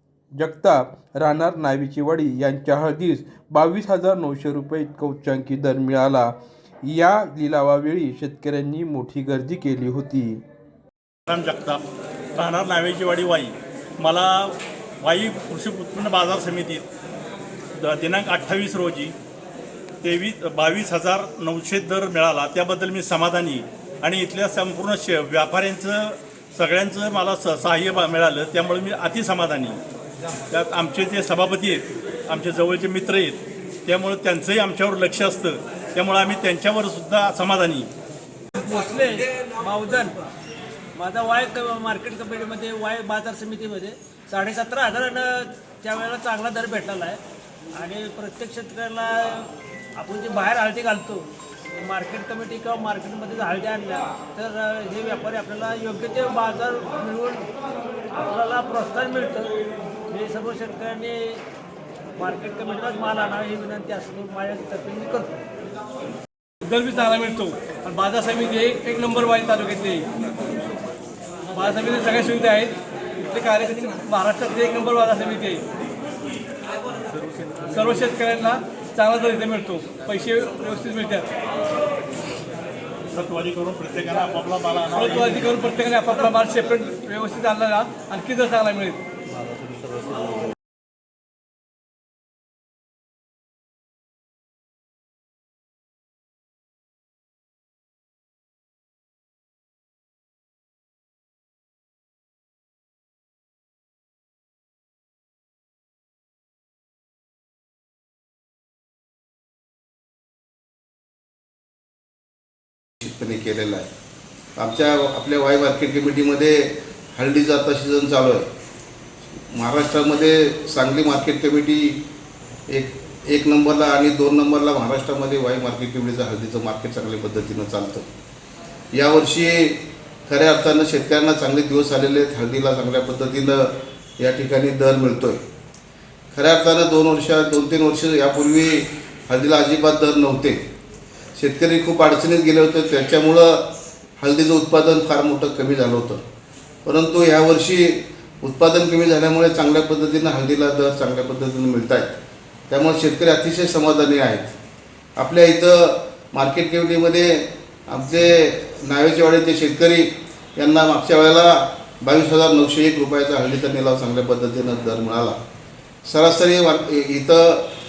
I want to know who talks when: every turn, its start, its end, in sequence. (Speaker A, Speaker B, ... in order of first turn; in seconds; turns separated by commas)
Speaker A: 0.3-10.4, Speaker B: 11.3-11.8, Speaker B: 12.3-16.9, Speaker B: 17.8-19.1, Speaker B: 20.0-29.8, Speaker B: 30.5-37.9, Speaker C: 38.5-40.2, Speaker C: 41.0-47.2, Speaker C: 47.7-57.5, Speaker C: 58.1-59.6, Speaker C: 60.1-61.4, Speaker C: 62.2-65.4, Speaker D: 66.6-70.1, Speaker D: 71.5-75.6, Speaker B: 77.2-77.6, Speaker D: 77.7-81.3, Speaker B: 83.1-85.7, Speaker D: 84.9-89.0, Speaker E: 113.0-113.9, Speaker E: 114.6-118.5, Speaker E: 119.5-122.0, Speaker E: 122.7-128.1, Speaker E: 128.9-135.4, Speaker E: 136.3-140.6, Speaker E: 141.4-143.7, Speaker E: 144.2-146.2, Speaker E: 146.8-152.2, Speaker E: 152.7-154.6, Speaker E: 155.2-165.4, Speaker E: 166.1-167.7